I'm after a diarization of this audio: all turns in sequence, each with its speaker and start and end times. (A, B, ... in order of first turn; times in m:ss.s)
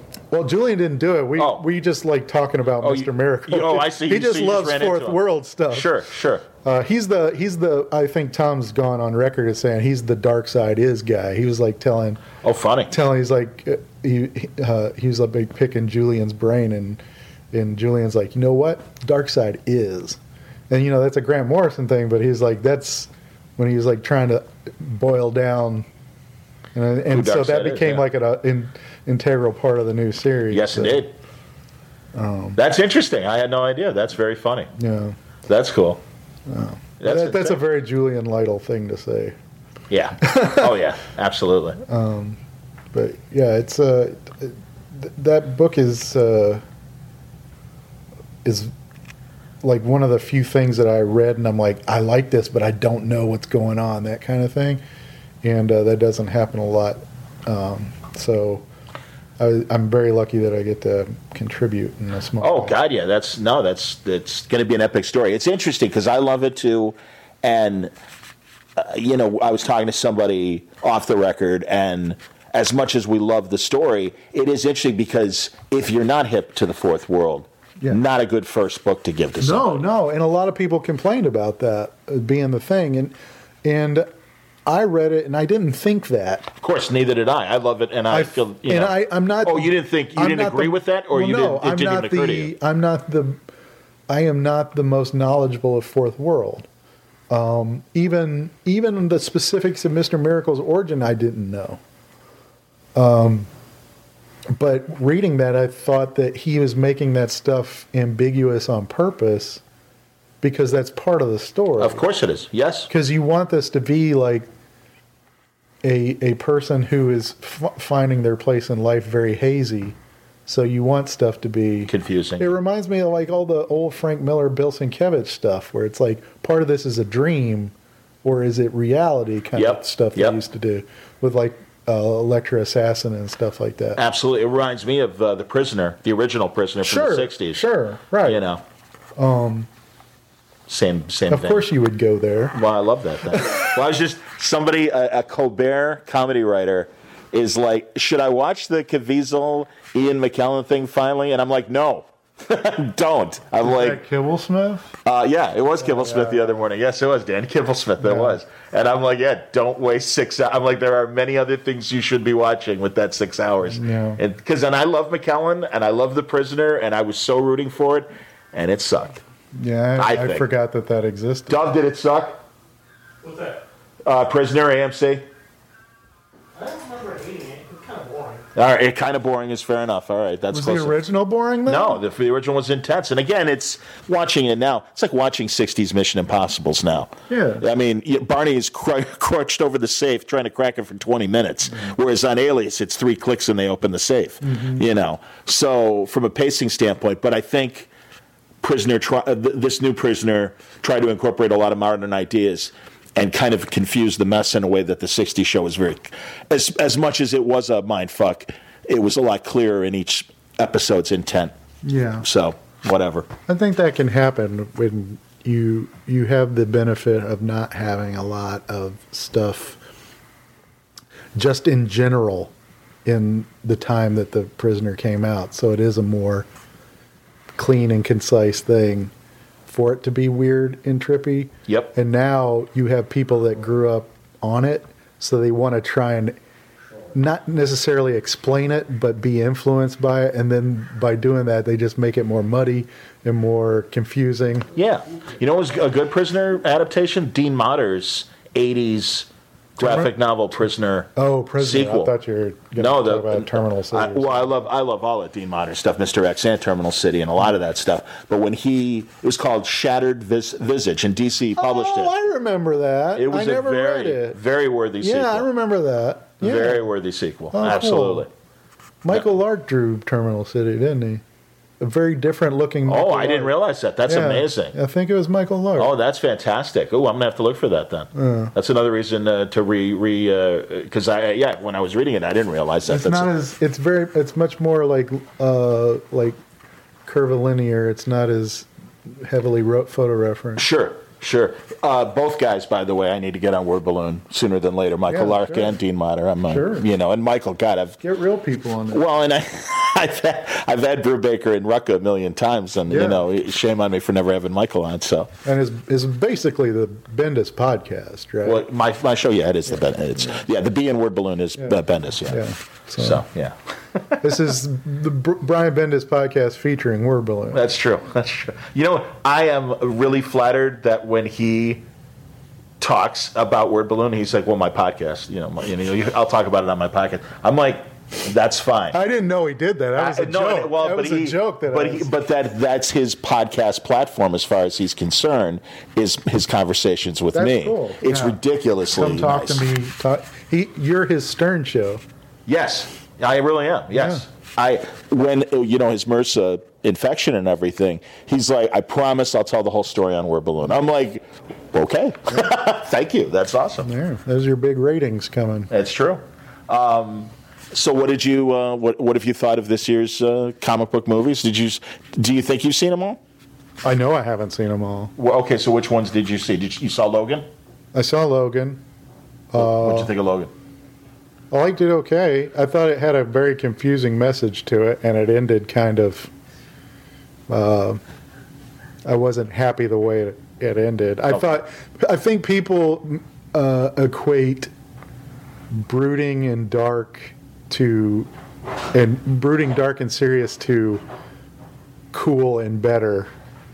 0:00.3-0:06.0 A
0:01.4-0:01.6 B
0:02.8-0:05.2 B
0:05.7-0:06.4 B
0:06.6-0:12.2 A
0:12.4-0:12.9 B
0:12.9-0:17.0 A
0:17.5-0:20.2 A
0:20.7-0:25.9 A
0:26.7-0:31.0 A
0:27.1-0:28.0 B
0:30.5-0:31.1 B
0:32.1-0:32.6 A
0:32.6-0:34.7 B
0:34.8-0:35.2 A
0:35.4-0:36.0 B
0:36.5-0:39.4 A
0:37.0-0:37.6 B
0:39.9-0:41.8 B
0:40.2-0:40.7 A
0:41.8-0:42.4 A
0:42.9-0:46.6 A
0:48.4-0:48.7 A
0:49.6-0:54.8 A
0:55.4-0:58.6 A
0:59.4-1:02.8 A
1:02.4-1:07.9 B
1:08.8-1:19.9 B
1:19.4-1:24.0 A
1:24.6-1:26.5 A
1:26.6-1:32.5 B
1:28.1-1:33.4 A
1:34.1-1:36.7 A
1:37.3-1:41.8 A
1:42.9-1:43.5 A
1:44.5-1:49.6 A
1:50.4-1:52.0 A
1:51.8-1:52.9 B
1:52.9-1:54.5 A
1:55.8-2:14.0 A
2:01.9-2:02.5 B
2:09.6-2:10.4 B
2:14.0-2:17.6 B
2:16.8-2:18.4 A
2:18.2-2:18.6 B
2:19.2-2:19.7 A
2:20.7-2:21.6 B
2:21.3-2:22.6 A
2:22.5-2:34.0 B
2:33.6-2:34.9 A
2:35.0-2:49.2 B
2:35.8-2:36.6 A
2:38.0-2:38.4 A
2:43.6-2:44.2 A
2:49.5-2:51.7 A
2:50.0-2:50.5 B
2:51.5-2:52.4 B
2:53.2-2:53.6 C
2:54.0-2:55.2 B
2:56.6-2:58.4 C
2:58.5-3:01.0 B
3:00.5-3:02.0 A
3:01.6-3:17.9 B
3:07.3-3:07.6 A
3:14.4-3:14.8 A
3:18.6-3:31.5 B
3:31.8-3:32.2 A
3:32.2-3:33.3 B
3:33.5-3:39.8 A
3:41.3-3:42.5 A
3:43.0-3:46.5 A
3:47.5-3:49.1 A
3:49.7-3:56.4 A
3:51.7-3:51.9 B
3:57.1-4:04.7 A
4:04.8-4:12.1 B
4:09.8-4:10.1 A
4:11.2-4:14.5 A
4:12.8-4:22.1 B
4:21.6-4:24.4 A
4:23.2-4:25.5 B
4:25.0-4:26.8 A
4:26.4-4:28.3 B
4:27.5-4:28.3 A
4:29.0-4:31.2 A
4:31.8-4:33.5 A
4:32.8-4:34.7 B
4:34.0-4:35.9 A
4:35.8-4:43.3 B
4:38.1-4:38.5 A
4:42.9-4:46.4 A
4:47.0-4:50.6 A
4:50.6-4:58.0 B
4:55.1-4:55.8 A
4:56.5-4:56.9 A
4:58.0-4:59.0 A
4:58.9-5:05.3 B
5:02.9-5:03.2 A
5:05.4-5:08.6 A
5:08.4-5:12.4 B
5:09.7-5:10.4 A
5:11.6-5:13.2 A
5:13.0-5:14.2 B
5:14.2-5:17.6 A
5:17.5-5:21.8 B
5:22.8-5:29.0 B
5:28.9-5:32.1 A
5:30.0-5:39.6 B
5:37.3-5:42.0 A
5:42.5-5:53.9 B
5:43.9-5:44.2 A
5:53.8-5:55.7 A
5:55.7-6:03.2 B
6:03.8-6:05.1 A
6:05.2-6:07.5 B
6:07.9-6:08.8 A
6:09.5-6:10.1 A
6:09.5-6:10.5 B
6:11.5-6:16.3 A
6:17.5-6:18.0 A
6:19.0-6:24.7 A
6:25.7-6:28.3 A
6:28.9-6:31.0 A
6:32.1-6:33.3 A